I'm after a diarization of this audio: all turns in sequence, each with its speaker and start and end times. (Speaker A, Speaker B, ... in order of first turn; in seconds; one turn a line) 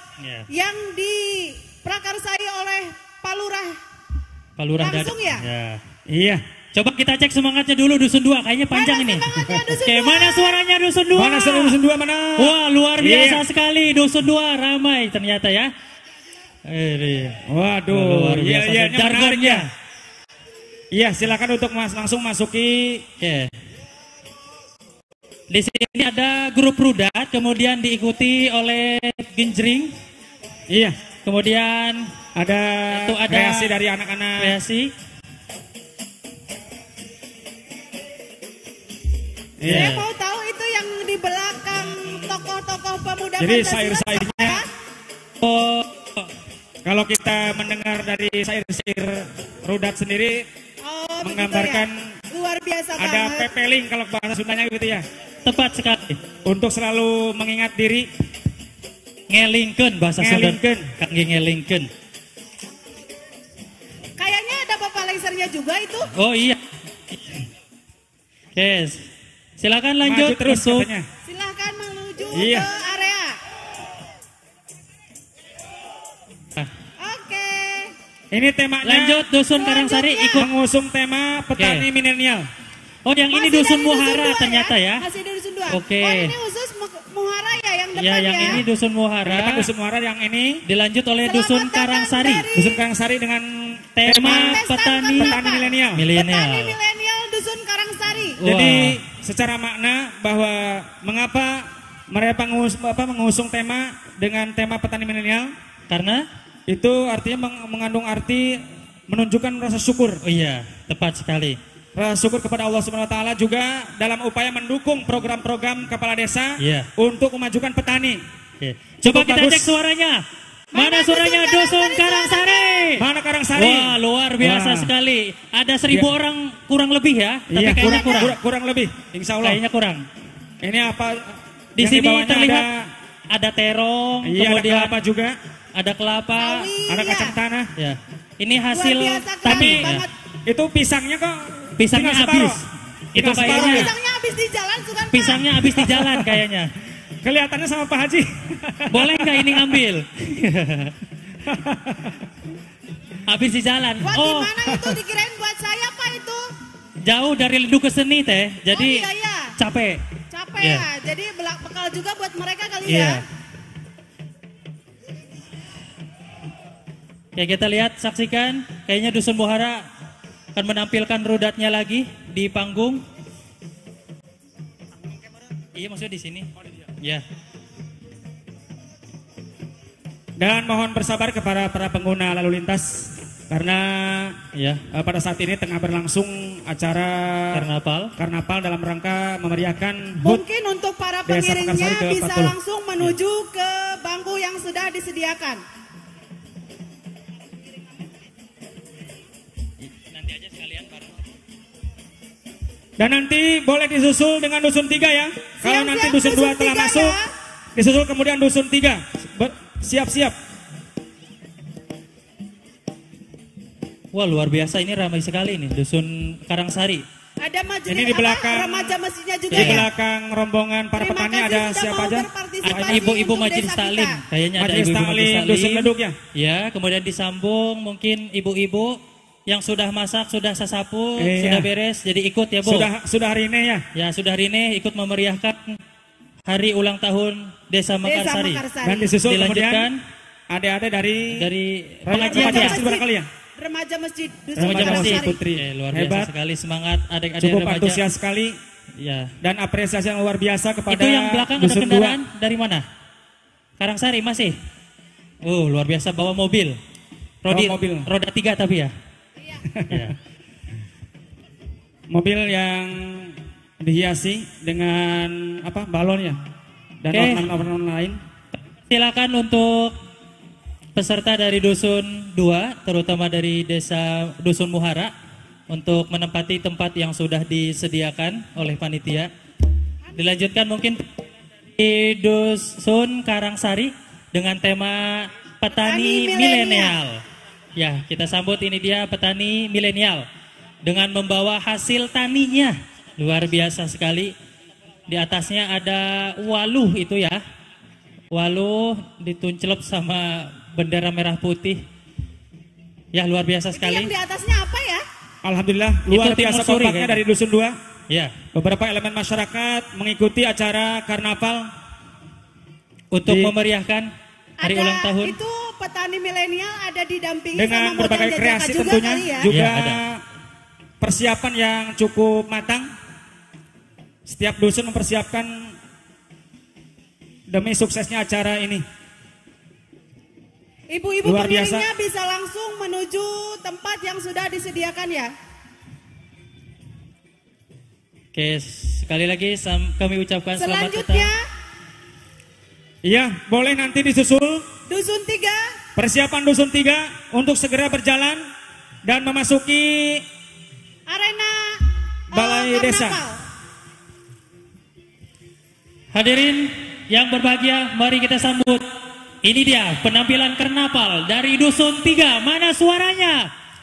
Speaker A: 0.2-0.5
Speaker B: 0.5-3.8
Speaker A: 4.6-5.8
Speaker B: 4.8-5.4
Speaker C: 6.1-6.4
Speaker A: 6.7-11.8
Speaker B: 8.7-10.6
Speaker C: 11.1-13.4
Speaker A: 12.4-15.7
Speaker A: 16.7-19.7
Speaker C: 17.5-19.6
Speaker C: 20.9-23.1
Speaker A: 23.2-23.5
Speaker A: 25.5-29.9
Speaker C: 30.7-31.0
Speaker A: 31.2-32.1
Speaker C: 32.4-34.5
Speaker A: 32.9-33.7
Speaker A: 34.4-34.9
Speaker C: 39.6-40.0
Speaker A: 39.6-40.0
Speaker B: 39.7-44.7
Speaker C: 43.4-44.6
Speaker A: 45.4-46.3
Speaker C: 46.9-50.4
Speaker B: 50.8-53.5
Speaker C: 51.2-52.0
Speaker C: 53.0-55.0
Speaker A: 55.4-56.2
Speaker C: 56.4-58.1
Speaker A: 59.3-61.9
Speaker C: 60.2-60.9
Speaker B: 64.2-66.1
Speaker A: 66.1-66.6
Speaker A: 67.1-67.4
Speaker A: 68.5-69.0
Speaker A: 69.6-70.9
Speaker C: 70.0-71.1
Speaker B: 71.2-73.4
Speaker C: 72.3-72.7
Speaker B: 77.0-77.9
Speaker C: 78.3-79.2
Speaker A: 78.8-80.5
Speaker B: 79.5-80.5
Speaker C: 80.4-82.5
Speaker A: 81.6-81.8
Speaker A: 83.0-85.0
Speaker B: 83.3-88.6
Speaker A: 85.7-86.3
Speaker A: 88.0-89.7
Speaker C: 89.2-90.6
Speaker A: 90.7-92.4
Speaker B: 91.2-92.8
Speaker C: 92.5-96.0
Speaker A: 94.0-95.3
Speaker B: 94.2-98.4
Speaker A: 96.0-96.7
Speaker A: 98.4-99.0
Speaker C: 98.4-105.5
Speaker A: 105.9-106.2
Speaker C: 106.7-110.2
Speaker A: 110.2-111.6
Speaker C: 111.9-118.2
Speaker A: 116.6-116.9
Speaker A: 118.6-123.0
Speaker C: 119.0-119.7
Speaker B: 120.7-122.9
Speaker C: 123.0-124.9
Speaker A: 123.5-128.3
Speaker C: 127.5-129.6
Speaker B: 127.7-128.3
Speaker A: 129.4-130.0
Speaker C: 130.6-132.9
Speaker A: 131.8-132.7
Speaker A: 133.3-134.9
Speaker C: 134.2-135.4
Speaker A: 135.7-136.7
Speaker B: 136.4-137.3
Speaker C: 136.9-137.7
Speaker A: 137.8-140.1
Speaker B: 138.7-140.1
Speaker C: 139.5-139.9
Speaker C: 140.4-142.6
Speaker A: 141.8-143.9
Speaker C: 143.2-143.9
Speaker B: 143.4-145.6
Speaker A: 145.1-146.7
Speaker C: 145.8-146.4
Speaker C: 147.2-149.7
Speaker A: 148.9-150.9
Speaker C: 151.4-152.2
Speaker A: 153.3-154.5
Speaker B: 154.0-156.4
Speaker C: 154.7-155.0
Speaker A: 157.1-160.0
Speaker B: 158.7-159.5
Speaker B: 160.3-163.2
Speaker A: 160.6-160.8
Speaker A: 162.8-163.2
Speaker A: 167.3-169.8
Speaker A: 170.5-173.0
Speaker A: 175.7-176.5
Speaker C: 180.4-184.4
Speaker A: 184.5-184.8
Speaker C: 184.9-187.7
Speaker A: 187.5-188.1
Speaker C: 188.2-190.4
Speaker B: 190.2-195.6
Speaker C: 191.3-192.5
Speaker A: 199.9-201.2
Speaker C: 203.0-207.2
Speaker B: 205.6-207.3
Speaker C: 207.7-210.3
Speaker A: 214.1-217.0
Speaker B: 217.4-219.9
Speaker C: 217.9-218.9
Speaker C: 219.5-223.2
Speaker A: 219.5-219.8
Speaker B: 221.0-224.2
Speaker A: 222.6-232.9
Speaker C: 224.6-226.2
Speaker C: 231.2-231.7
Speaker C: 232.6-233.8
Speaker A: 233.9-235.8
Speaker A: 236.5-238.6
Speaker B: 238.0-239.1
Speaker C: 238.8-239.9
Speaker A: 239.2-240.0
Speaker C: 240.5-241.4
Speaker A: 241.3-242.8
Speaker C: 242.1-243.3
Speaker B: 242.1-243.0
Speaker B: 243.6-245.4
Speaker C: 244.6-246.3
Speaker A: 244.6-248.0
Speaker C: 247.4-248.6
Speaker A: 249.0-249.3
Speaker C: 249.4-252.2
Speaker A: 250.9-252.8
Speaker A: 253.8-254.6
Speaker A: 255.4-256.8
Speaker A: 257.4-258.9
Speaker C: 257.5-258.1
Speaker C: 259.7-260.1
Speaker A: 259.9-260.1
Speaker C: 262.1-266.4
Speaker C: 267.0-268.2
Speaker A: 267.1-267.5
Speaker A: 268.5-269.9
Speaker A: 270.9-275.1
Speaker A: 275.7-279.3
Speaker B: 280.1-280.3
Speaker A: 280.1-281.0
Speaker A: 281.8-287.2
Speaker B: 285.7-287.0
Speaker A: 287.8-290.2
Speaker A: 290.8-294.3
Speaker A: 295.1-297.4
Speaker A: 298.3-301.8
Speaker A: 303.1-304.1
Speaker B: 303.7-305.0
Speaker C: 305.4-307.8
Speaker A: 306.1-307.2
Speaker C: 308.5-311.7
Speaker A: 313.1-314.1
Speaker C: 313.2-313.5
Speaker B: 314.6-319.5
Speaker A: 314.6-315.4
Speaker C: 317.6-320.2
Speaker A: 319.5-320.0
Speaker C: 321.0-322.9
Speaker C: 324.2-325.7
Speaker C: 327.5-328.8
Speaker B: 330.9-335.3
Speaker C: 331.2-331.9
Speaker A: 338.3-341.3
Speaker B: 340.6-341.4
Speaker C: 343.0-344.6
Speaker B: 344.9-345.7
Speaker C: 345.9-348.4
Speaker C: 349.0-350.2
Speaker B: 351.1-351.8
Speaker C: 352.3-353.2
Speaker B: 352.3-353.4
Speaker A: 356.1-358.9
Speaker A: 359.4-363.5